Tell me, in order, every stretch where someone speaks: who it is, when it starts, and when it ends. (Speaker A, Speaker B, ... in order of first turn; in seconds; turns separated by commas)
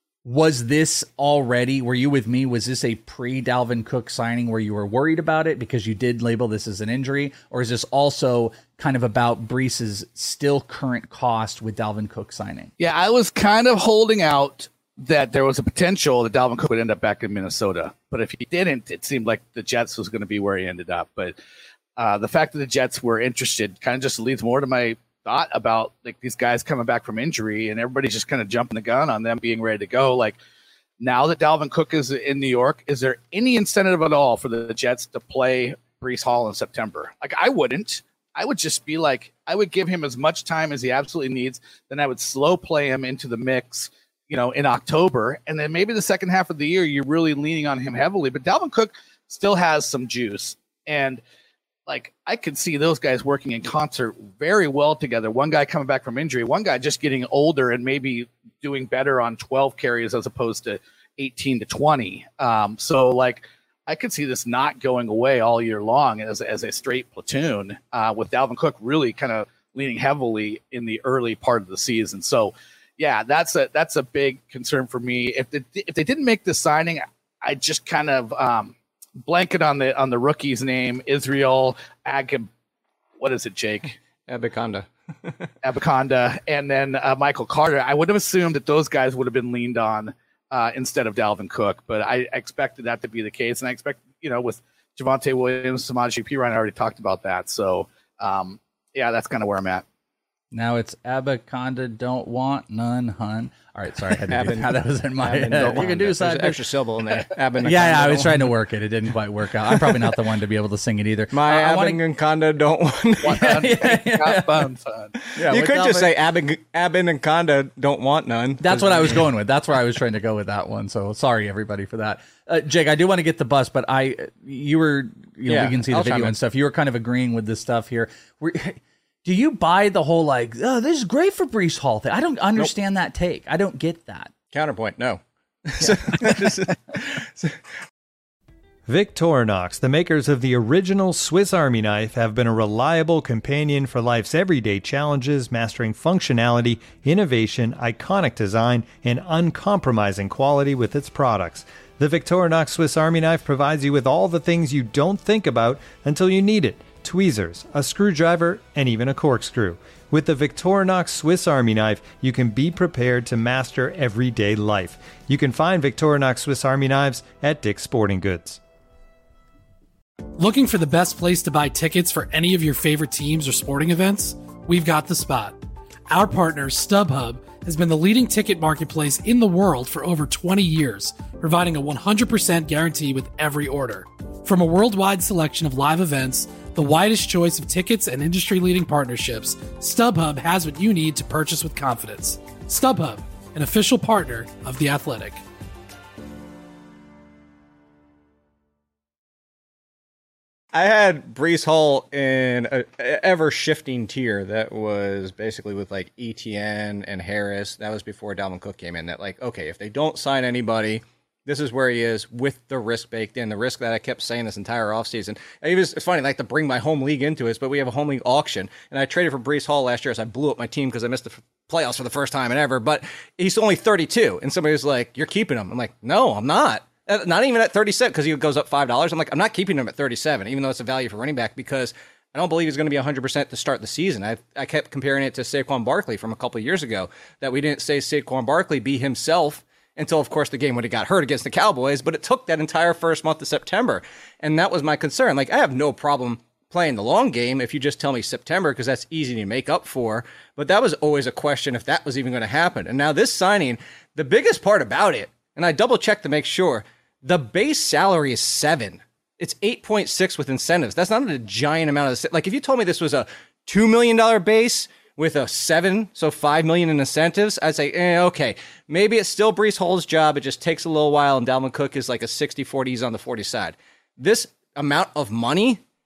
Speaker A: 0.2-12.7, Speaker B: 12.8-21.4, Speaker B: 22.0-30.4, Speaker B: 31.0-51.2, Speaker B: 51.9-78.7, Speaker B: 79.3-82.5, Speaker B: 83.2-84.0, Speaker C: 84.3-85.5, Speaker B: 85.6-99.8, Speaker A: 100.5-106.6, Speaker C: 104.3-108.5, Speaker A: 107.2-112.0, Speaker C: 111.3-113.6, Speaker B: 113.2-115.1, Speaker A: 113.4-114.6, Speaker A: 115.3-116.1, Speaker C: 115.5-119.2, Speaker A: 118.6-134.3, Speaker C: 125.5-126.3, Speaker C: 134.5-137.6, Speaker D: 138.9-168.6, Speaker E: 170.4-195.4, Speaker C: 200.7-275.8